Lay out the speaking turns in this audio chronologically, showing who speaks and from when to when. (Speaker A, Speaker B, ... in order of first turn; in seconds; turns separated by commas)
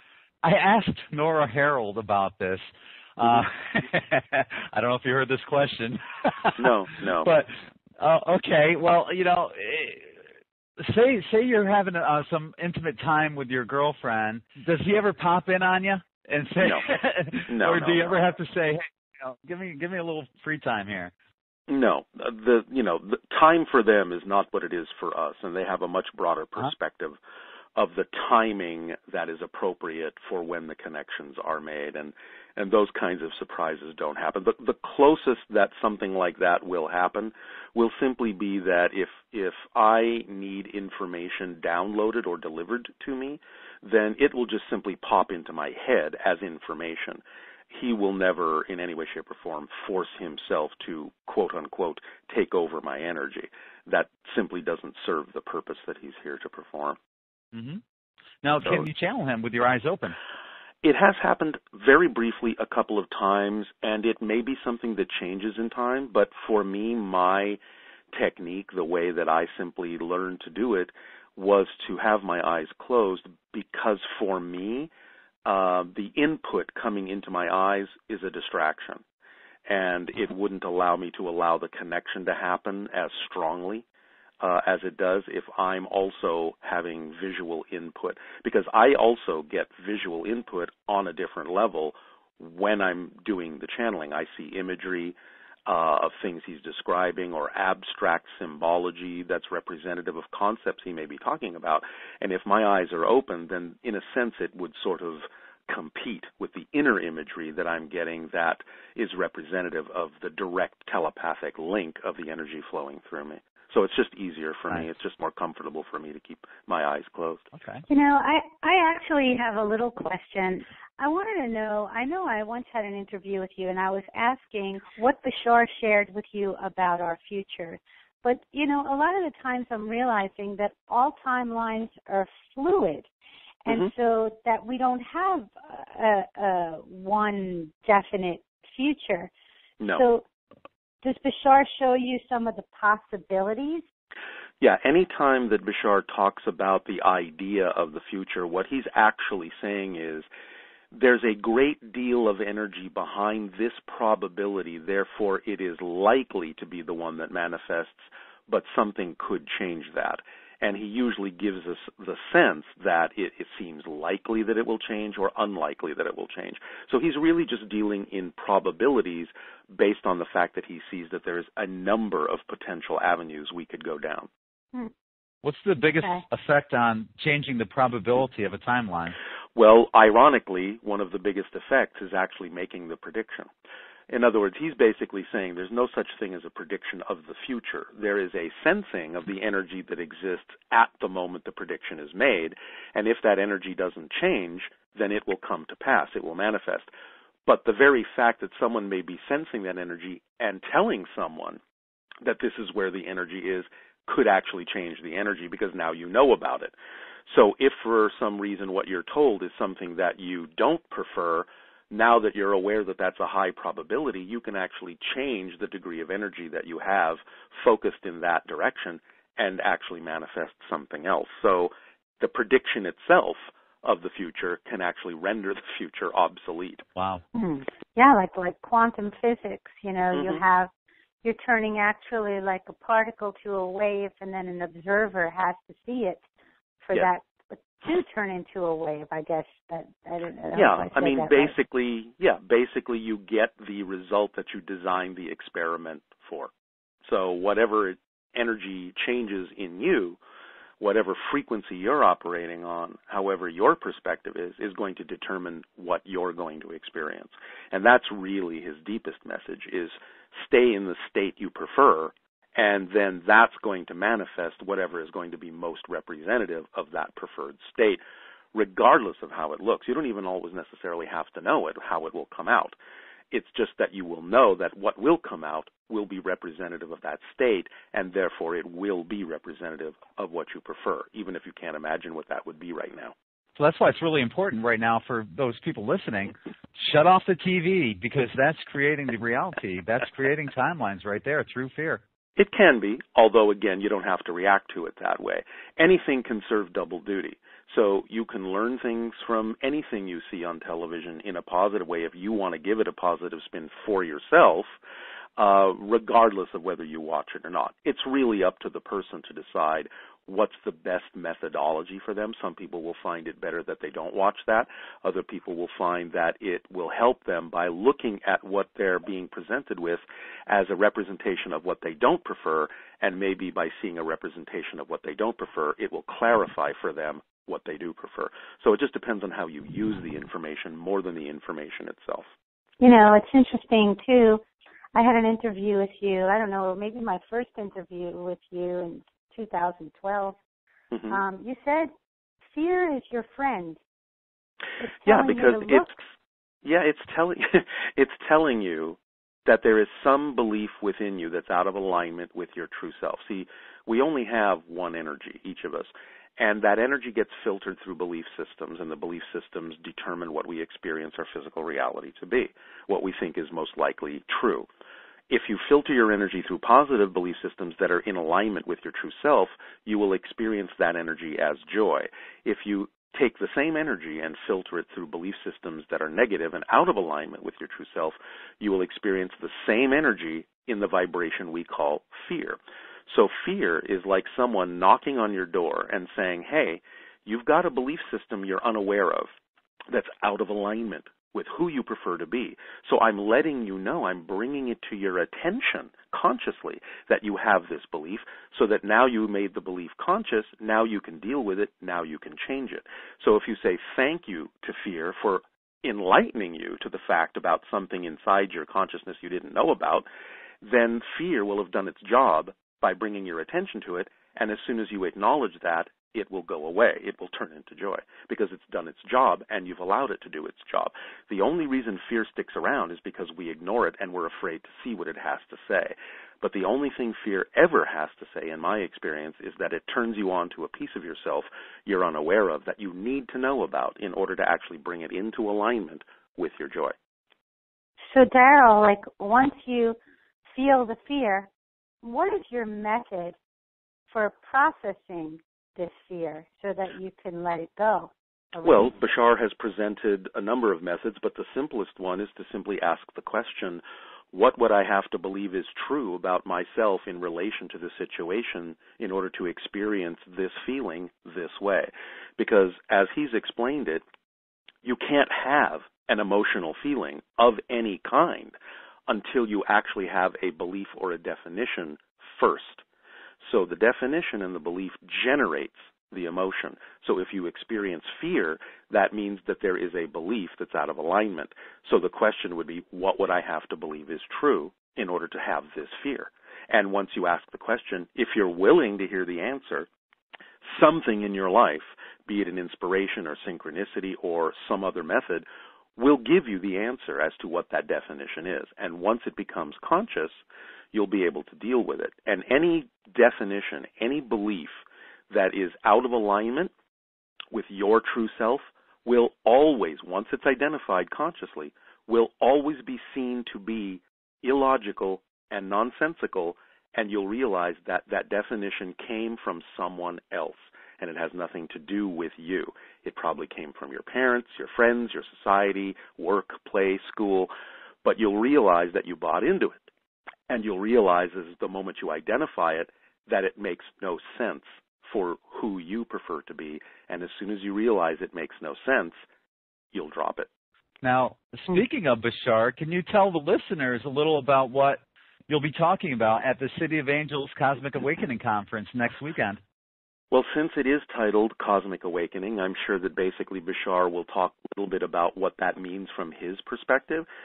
Speaker A: 0.4-2.6, Speaker A: 3.2-6.7, Speaker B: 6.6-7.3, Speaker A: 7.2-10.2, Speaker A: 10.8-21.1, Speaker B: 16.6-16.9, Speaker B: 17.5-18.2, Speaker B: 21.7-27.2, Speaker B: 27.8-57.0, Speaker A: 57.5-57.8, Speaker A: 58.4-60.2, Speaker B: 60.8-67.6, Speaker B: 68.1-74.9, Speaker B: 75.4-79.0, Speaker B: 79.7-83.8, Speaker B: 84.4-117.5, Speaker A: 117.5-117.8, Speaker C: 117.9-133.1, Speaker C: 133.6-139.3, Speaker B: 133.7-133.9, Speaker C: 139.9-140.2, Speaker C: 141.0-143.8, Speaker B: 144.6-150.3, Speaker B: 150.9-174.3, Speaker A: 175.4-179.2, Speaker B: 179.6-183.5, Speaker B: 184.1-196.9, Speaker B: 197.4-201.6, Speaker B: 202.2-206.7, Speaker B: 207.2-226.8, Speaker A: 226.9-227.2, Speaker C: 227.3-230.7, Speaker B: 230.1-230.4, Speaker C: 231.2-236.2, Speaker C: 236.8-241.5, Speaker B: 240.5-246.5, Speaker B: 247.0-250.2, Speaker B: 250.8-268.0, Speaker B: 268.5-272.8, Speaker B: 273.3-283.1, Speaker A: 283.6-292.0, Speaker B: 292.4-304.7, Speaker B: 305.4-332.3, Speaker C: 332.8-334.4, Speaker C: 334.9-340.4, Speaker B: 340.9-341.2, Speaker C: 341.1-341.9, Speaker C: 342.5-343.8, Speaker C: 344.8-345.9, Speaker B: 345.0-346.0, Speaker B: 346.6-364.7, Speaker B: 365.3-389.3, Speaker B: 389.9-410.1, Speaker B: 410.6-436.9, Speaker C: 438.1-440.0, Speaker C: 440.5-441.5, Speaker C: 442.0-443.4, Speaker C: 444.1-448.9, Speaker B: 448.6-464.0, Speaker B: 464.8-468.5, Speaker B: 469.1-472.8, Speaker B: 473.4-489.9, Speaker B: 490.6-495.4, Speaker B: 496.0-500.4, Speaker B: 500.9-506.7, Speaker B: 507.5-527.5, Speaker B: 528.0-529.9, Speaker B: 530.5-539.2, Speaker B: 539.9-540.5, Speaker A: 541.0-549.6, Speaker B: 550.3-557.3